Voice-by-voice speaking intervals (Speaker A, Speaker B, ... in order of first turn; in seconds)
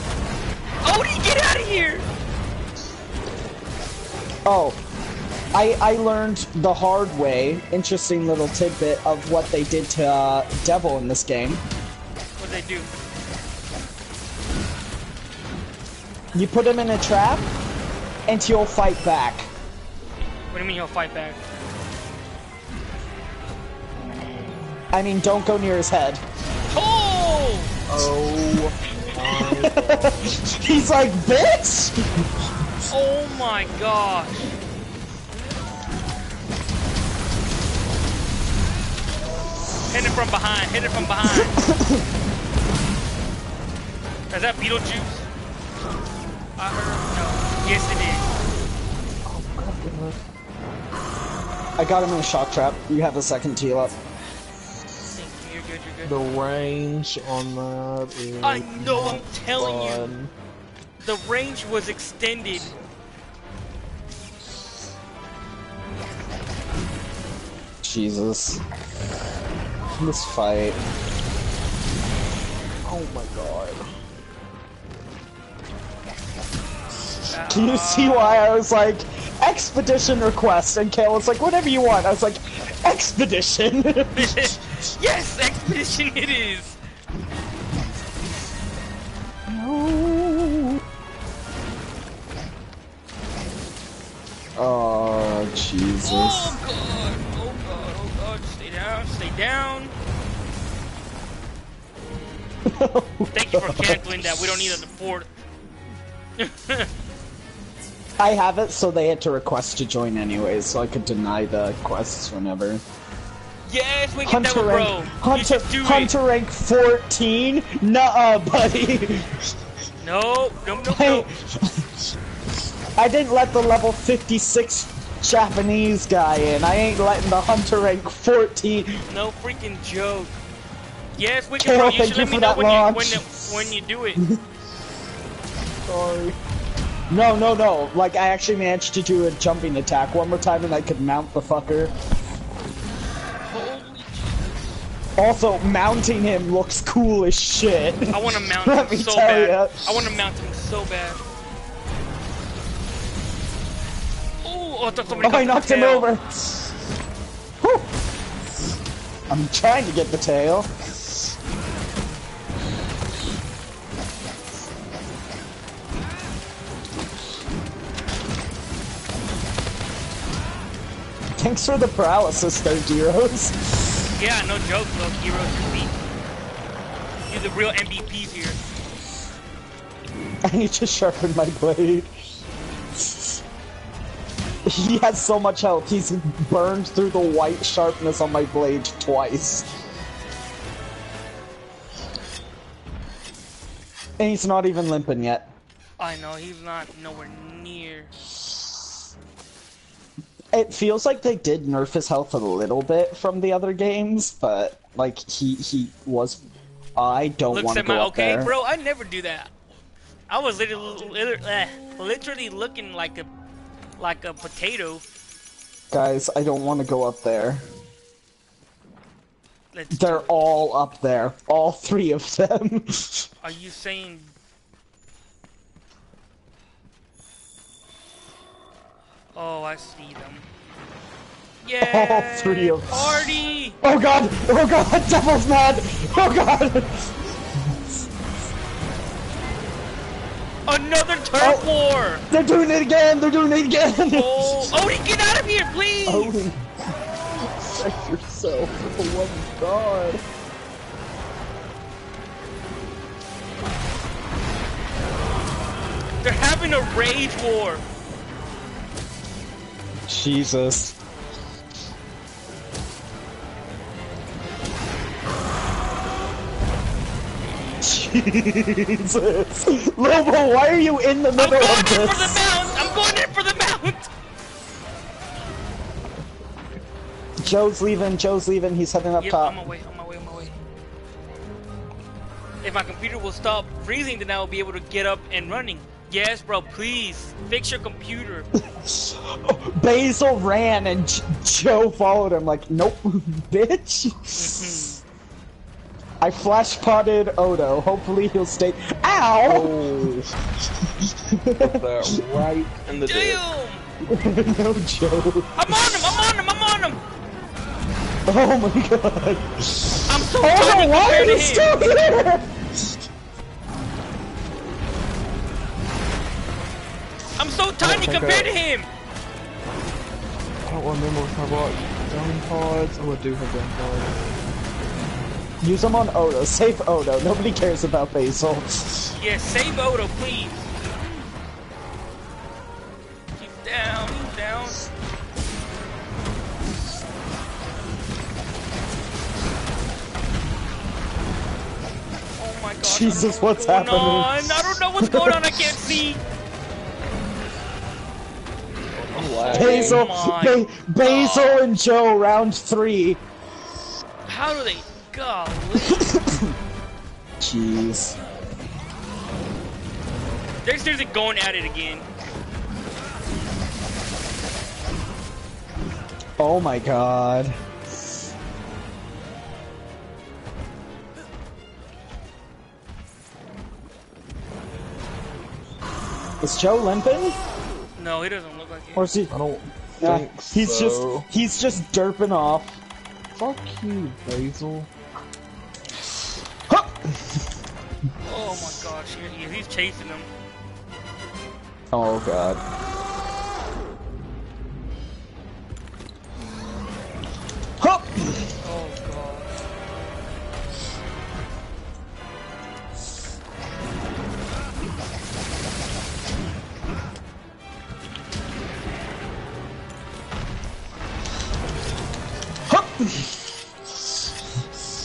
Speaker A: 0.8-2.1, 12.4-12.9, 20.5-21.4, 26.7-27.7, 32.9-34.5, 39.9-41.6, 44.3-45.3, 46.6-48.3, 55.1-56.2, 58.4-60.1, 61.0-62.7, 77.3-78.5, 84.1-86.8, 96.0-99.9, 103.3-105.3, 106.4-106.9, 113.6-116.1, 120.0-121.3, 129.1-130.4, 131.2-134.2, 143.5-144.4, 148.1-151.2, 154.4-156.1, 174.2-176.0, 177.3-178.6, 196.0-198.1, 207.5-209.5, 210.3-213.3, 214.0-215.0, 219.7-220.3, 223.4-224.3, 229.3-230.4, 231.6-233.8, 240.7-242.2, 243.9-246.5, 256.2-257.8, 271.4-274.1, 279.2-280.5, 282.6-288.5, 294.3-295.0, 303.0-303.9, 305.6-307.0, 310.1-311.8, 317.4-318.9, 329.1-330.7, 333.4-334.8, 342.4-346.2, 349.4-351.6, 354.3-356.1, 360.6-362.1, 377.9-379.0, 388.2-390.3, 398.6-399.5
Speaker B: 4.5-4.8, 5.5-11.6, 16.3-17.5, 18.3-19.5, 24.9-26.2, 29.4-32.2, 41.2-42.0, 51.8-53.9, 67.8-68.6, 70.0-70.8, 77.5-84.6, 89.5-90.8, 94.5-96.5, 102.7-104.5, 108.2-112.8, 114.2-119.5, 120.8-121.9, 123.0-129.0, 131.6-134.4, 137.1-141.9, 145.2-149.9, 155.2-156.7, 157.6-157.9, 159.3-160.7, 171.4-173.9, 180.4-182.1, 184.7-189.7, 194.2-195.5, 200.5-206.4, 206.9-208.5, 215.9-217.6, 219.9-223.3, 231.8-233.3, 233.8-237.1, 241.4-241.7, 242.3-244.7, 246.1-246.6, 260.1-260.9, 267.8-272.4, 277.4-279.6, 288.6-294.8, 296.2-299.7, 300.8-302.2, 304.0-305.9, 308.2-312.5, 325.6-329.1, 342.8-345.8, 349.4-353.2, 355.8-356.5, 357.4-358.2, 366.4-367.6, 376.4-377.4, 378.9-379.3, 380.0-382.8, 386.7-387.4, 391.9-392.6, 397.8-398.5, 412.7-413.4
Speaker C: 27.9-30.3, 49.3-50.2, 56.0-60.3, 72.8-73.9, 135.8-136.4, 247.4-250.2, 299.4-300.3, 301.6-303.4, 317.8-318.6, 320.6-324.2, 349.1-350.1, 379.3-381.3, 383.3-384.9